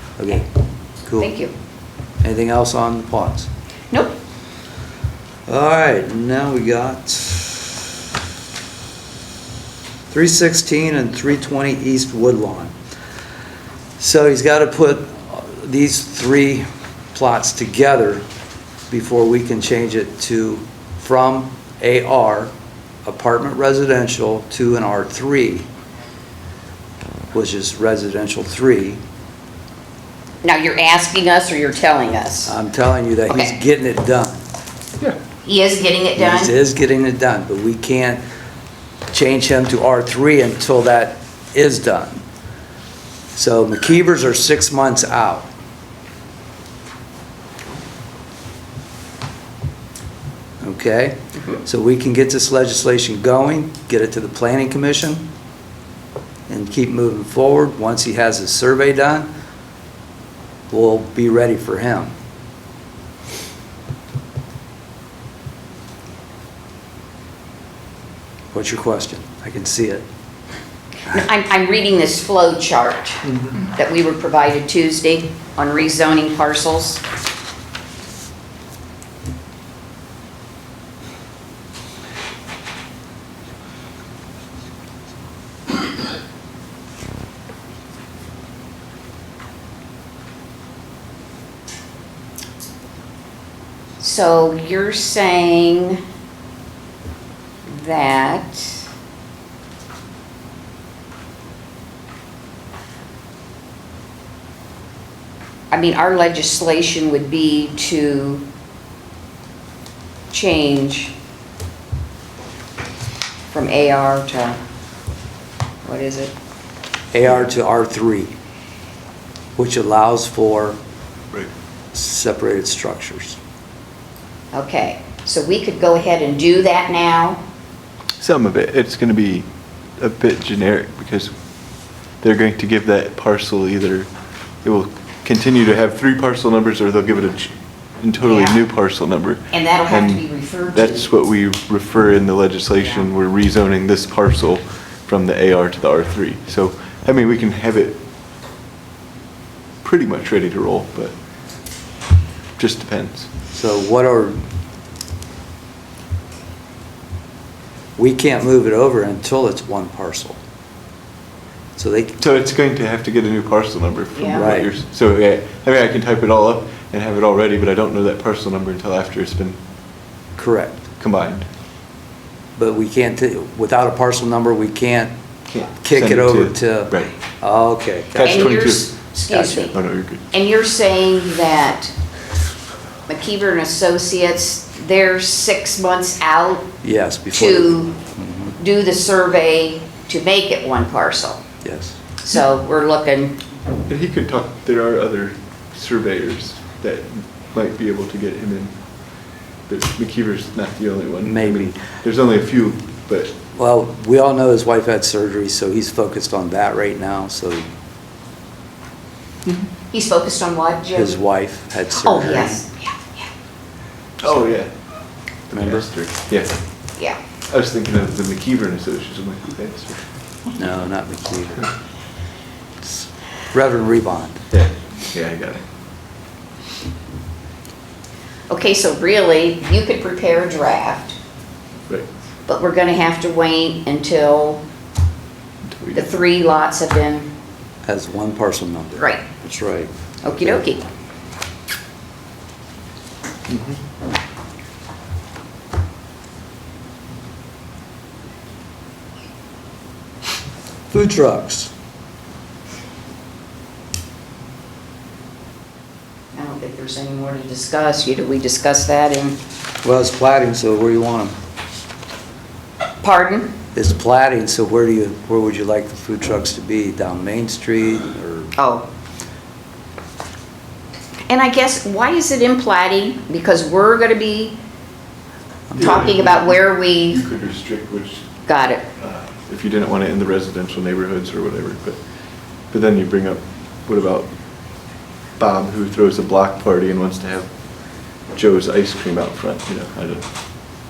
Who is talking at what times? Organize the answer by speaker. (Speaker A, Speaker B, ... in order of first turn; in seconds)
Speaker A: 0.2-0.5, 1.0-1.3, 2.2-3.5, 5.5-7.9, 10.1-12.7, 14.0-18.2, 18.9-22.5, 23.0-25.6, 27.3-29.0, 32.5-34.4, 36.2-38.2, 39.1-42.2, 43.3-45.5, 50.6-55.2, 56.5-59.3, 60.7-62.1, 68.5-70.0, 117.1-118.3, 119.6-120.8, 121.9-123.4, 153.5-154.4, 157.9-160.4, 161.8-162.2, 164.3-164.7, 170.4-170.8, 172.6-175.1, 175.8-178.6, 179.3-179.7, 186.8-188.5, 191.6-192.0, 201.2-201.8, 203.6-207.6, 210.9-212.6, 215.5-215.9, 220.6-221.7, 222.8-224.4, 237.9-240.6, 250.9-251.7, 259.8-261.3, 263.7-268.5, 275.7-276.1
Speaker B: 1.2-1.5, 3.9-4.2, 30.4-32.5, 35.4-36.5, 71.1-77.0, 94.0-96.0, 97.7-98.8, 105.7-108.4, 110.3-111.1, 113.5-114.6, 115.8-116.3, 124.5-127.4, 138.2-138.6, 139.5-141.1, 164.1-164.5, 178.2-179.8, 180.3-181.9, 183.1-186.7, 187.3-187.9, 188.6-191.4, 192.2-193.4, 209.9-211.1, 211.9-213.3, 228.5-231.2, 232.5-234.6, 235.9-237.3, 239.0-239.4, 240.2-240.8, 256.3-259.4, 263.0-263.6, 268.6-268.9, 271.3-274.6, 275.8-277.2, 278.5-278.8
Speaker C: 128.2-131.3, 132.2-134.1, 134.6-148.0, 149.8-151.1, 152.6-153.3, 162.2-169.6, 171.0-171.5, 175.5-177.1, 178.1-178.9, 179.7-180.2, 193.9-198.8, 199.7-203.3, 214.2-214.7, 215.5-216.6, 217.5-220.0, 224.5-225.6, 235.7-236.1, 243.5-243.8, 275.8-278.3, 279.0-282.0, 282.7-284.3, 285.4-287.5, 288.3-290.3